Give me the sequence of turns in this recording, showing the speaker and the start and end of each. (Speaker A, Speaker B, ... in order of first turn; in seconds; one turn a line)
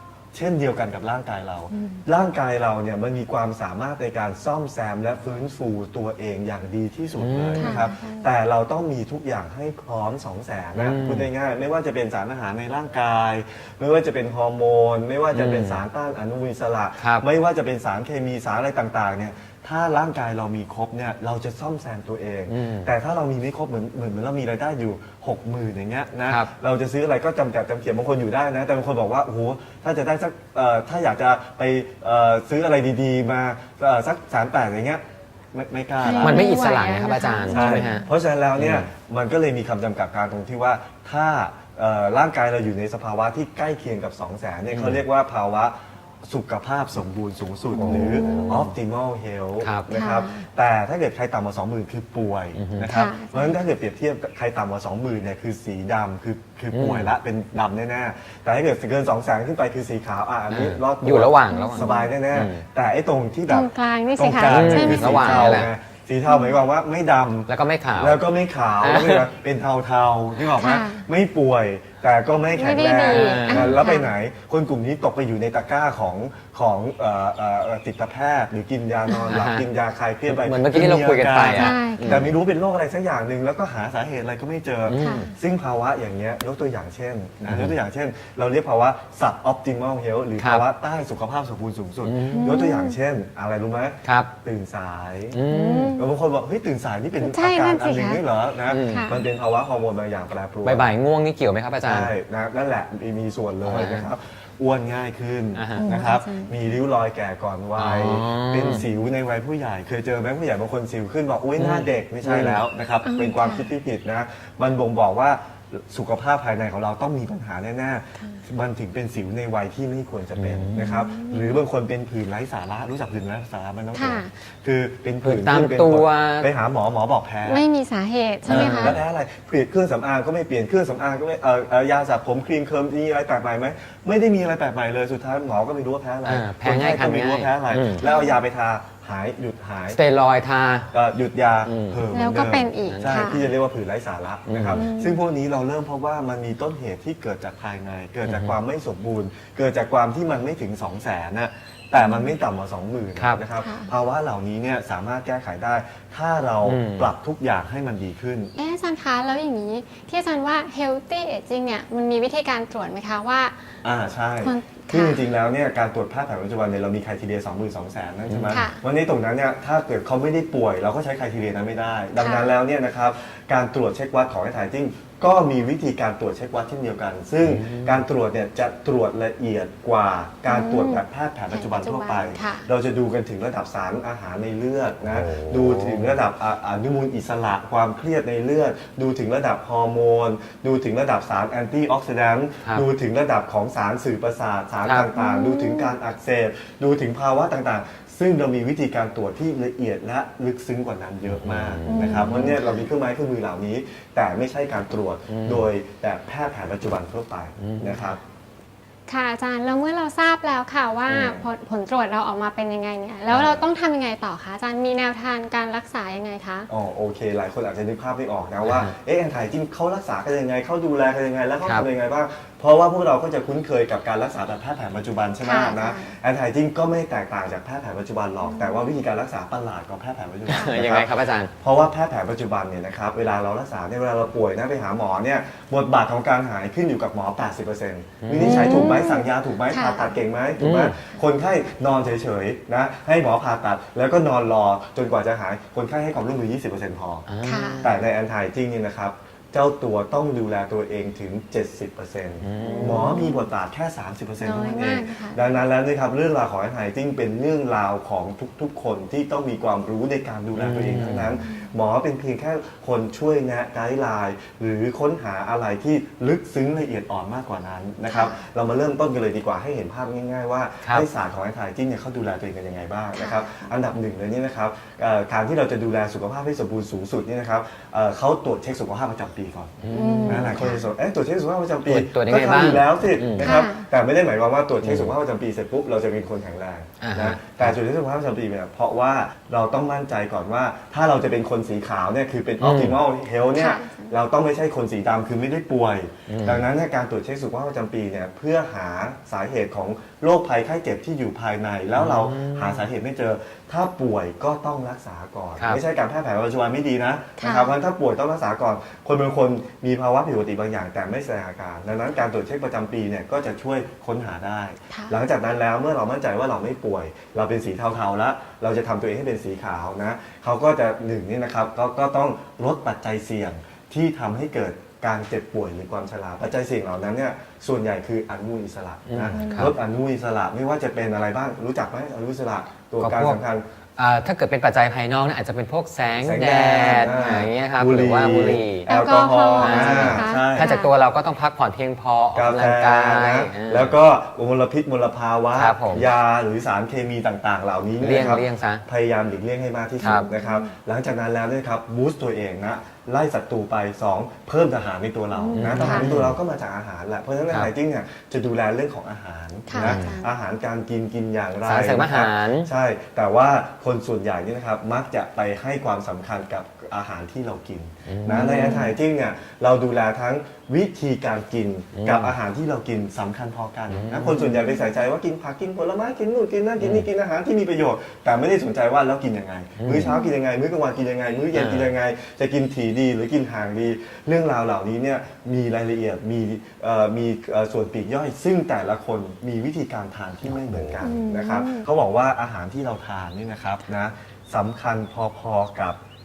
Speaker A: 0.3-35.0
Speaker B: 1.7-2.0
Speaker C: 7.2-7.8
Speaker B: 7.6-8.3
Speaker C: 10.8-11.3
Speaker C: 15.3-15.8
Speaker C: 17.0-17.3
Speaker C: 22.5-22.9
Speaker A: 35.5-36.4
Speaker B: 36.0-38.1
Speaker C: 36.2-38.9
Speaker A: 37.5-95.4
Speaker C: 44.7-45.0
Speaker C: 47.8-48.7
Speaker B: 47.8-48.7
Speaker C: 49.6-49.9
Speaker B: 49.9-50.5
Speaker C: 52.5-52.9
Speaker B: 52.8-53.6
Speaker C: 56.7-57.1
Speaker C: 60.5-62.6
Speaker B: 61.5-62.1
Speaker B: 63.5-65.7
Speaker C: 64.5-65.7
Speaker B: 66.3-66.6
Speaker C: 67.5-68.2
Speaker C: 68.8-69.3
Speaker B: 70.5-71.1
Speaker B: 72.5-74.1
Speaker C: 73.1-73.8
Speaker C: 79.3-79.7
Speaker C: 80.3-82.3
Speaker B: 81.5-82.3
Speaker C: 84.9-85.3
Speaker B: 84.9-85.3
Speaker C: 87.5-87.8
Speaker C: 90.4-90.7
Speaker C: 92.0-92.6
Speaker B: 92.3-93.0
Speaker C: 94.0-94.3
Speaker C: 95.3-96.0
Speaker B: 95.5-96.1
Speaker A: 96.0-100.9
Speaker B: 97.2-98.2
Speaker C: 98.7-99.2
Speaker B: 98.8-99.2
Speaker C: 100.6-102.1
Speaker A: 101.8-127.6
Speaker C: 103.6-104.1
Speaker C: 105.5-105.9
Speaker B: 105.8-106.5
Speaker C: 107.8-108.8
Speaker C: 111.6-112.6
Speaker B: 113.0-113.7
Speaker C: 120.3-121.1
Speaker B: 120.8-121.6
Speaker B: 123.9-124.3
Speaker C: 125.2-126.5
Speaker B: 127.5-129.0
Speaker A: 128.4-140.0
Speaker C: 128.5-129.0
Speaker C: 136.2-138.0
Speaker B: 138.0-138.4
Speaker C: 139.9-140.9
Speaker A: 140.9-158.5
Speaker C: 141.7-142.0
Speaker B: 142.1-143.4
Speaker C: 142.9-143.3
Speaker C: 144.5-144.8
Speaker B: 144.7-145.2
Speaker C: 148.2-148.6
Speaker B: 151.9-152.3
Speaker C: 153.2-153.4
Speaker B: 153.6-153.9
Speaker C: 156.6-157.1
Speaker B: 158.6-163.6
Speaker A: 163.8-208.2
Speaker B: 164.4-165.2
Speaker C: 168.3-168.7
Speaker B: 168.5-168.8
Speaker B: 172.2-172.5
Speaker C: 177.4-178.0
Speaker B: 180.5-182.7
Speaker C: 185.1-186.2
Speaker B: 195.1-195.9
Speaker C: 201.3-202.6
Speaker B: 201.9-202.9
Speaker C: 205.3-205.7
Speaker C: 207.6-208.1
Speaker B: 209.1-216.7
Speaker C: 211.1-211.5
Speaker A: 213.3-213.7
Speaker A: 216.7-231.1
Speaker C: 218.7-218.9
Speaker B: 225.4-226.1
Speaker B: 228.4-228.8
Speaker C: 230.5-231.5
Speaker B: 230.5-230.8
Speaker A: 231.6-247.3
Speaker C: 238.2-238.9
Speaker B: 238.4-240.2
Speaker C: 240.6-241.0
Speaker C: 247.3-248.0
Speaker B: 247.4-247.9
Speaker A: 247.8-333.6
Speaker C: 252.4-253.2
Speaker B: 252.6-253.5
Speaker B: 254.4-255.4
Speaker C: 260.5-261.4
Speaker B: 261.2-261.7
Speaker B: 268.1-268.4
Speaker B: 273.1-273.7
Speaker C: 279.8-280.6
Speaker B: 279.9-280.9
Speaker C: 281.9-283.6
Speaker B: 283.4-283.9
Speaker C: 284.8-285.1
Speaker C: 287.0-287.8
Speaker C: 292.6-293.0
Speaker B: 293.6-294.1
Speaker C: 296.3-296.7
Speaker C: 301.9-302.9
Speaker B: 307.4-307.7
Speaker B: 314.9-315.2
Speaker C: 329.1-329.7
Speaker B: 329.3-329.7
Speaker C: 333.0-333.4
Speaker C: 334.0-338.9
Speaker A: 336.1-340.7
Speaker B: 338.9-340.9
Speaker C: 339.6-343.9
Speaker A: 342.4-396.0
Speaker C: 345.6-346.1
Speaker C: 348.0-348.8
Speaker B: 350.0-350.7
Speaker C: 350.0-350.3
Speaker B: 355.3-356.1
Speaker C: 355.5-356.4
Speaker B: 359.7-360.4
Speaker C: 359.8-360.2
Speaker C: 361.6-362.7
Speaker C: 368.1-368.8
Speaker B: 368.3-368.9
Speaker C: 371.9-372.3
Speaker C: 373.9-374.6
Speaker C: 376.8-377.1
Speaker C: 379.8-380.1
Speaker B: 379.9-380.4
Speaker C: 381.5-381.9
Speaker C: 390.5-391.0
Speaker B: 391.0-391.9